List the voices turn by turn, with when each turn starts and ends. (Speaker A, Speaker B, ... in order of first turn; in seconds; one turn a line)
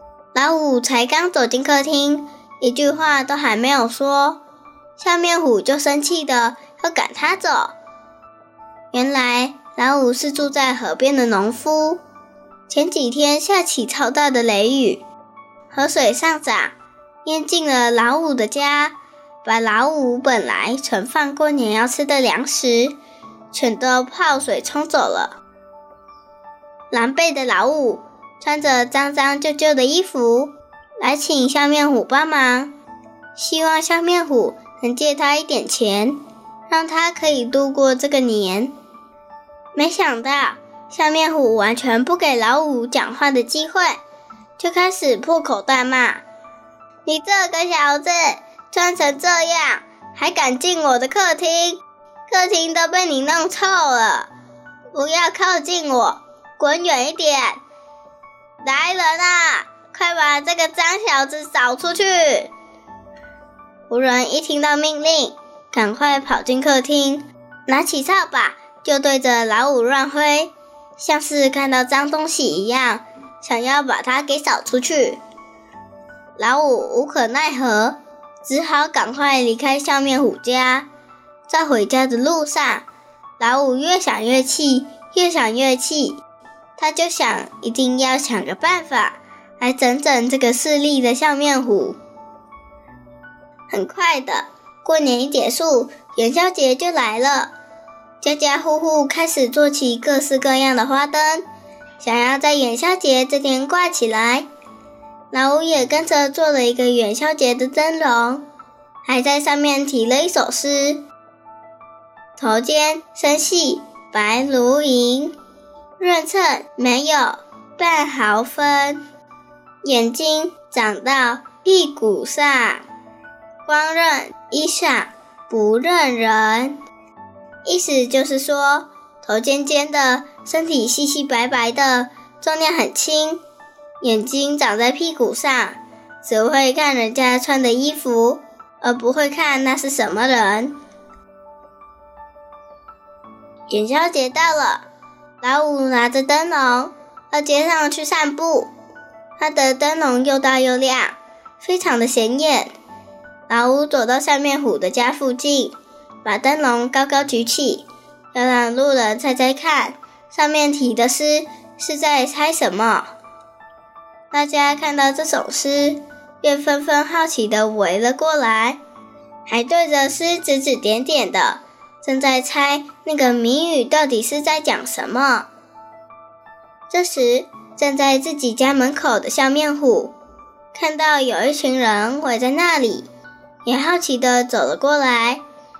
Speaker A: 0.3-4.4
Speaker A: 5.0-7.7
Speaker A: 8.9-12.0
Speaker A: 12.7-15.0
Speaker A: 15.7-16.7
Speaker A: 17.2-22.9
Speaker A: 23.5-25.4
Speaker A: 26.9-32.7
Speaker A: 33.4-36.2
Speaker A: 36.7-38.7
Speaker A: 39.8-44.0
Speaker A: 44.6-46.2
Speaker A: 47.0-54.3
Speaker A: 54.9-57.6
Speaker A: 58.6-62.5
Speaker A: 63.9-75.2
Speaker A: 76.4-80.9
Speaker A: 81.5-82.8
Speaker A: 83.4-86.2
Speaker A: 86.8-92.0
Speaker A: 93.7-97.5
Speaker A: 98.2-101.4
Speaker A: 102.0-104.5
Speaker A: 105.3-108.4
Speaker A: 109.0-111.0
Speaker A: 112.4-115.3
Speaker A: 116.0-119.0
Speaker A: 119.8-122.8
Speaker A: 123.7-126.8
Speaker A: 127.7-133.4
Speaker A: 134.0-140.7
Speaker A: 143.7-144.8
Speaker A: 145.4-148.7
Speaker A: 149.4-152.7
Speaker A: 153.5-155.7
Speaker A: 156.2-163.1
Speaker A: 164.3-168.8
Speaker A: 169.5-175.5
Speaker A: 176.9-180.1
Speaker A: 180.7-183.1
Speaker A: 183.6-185.4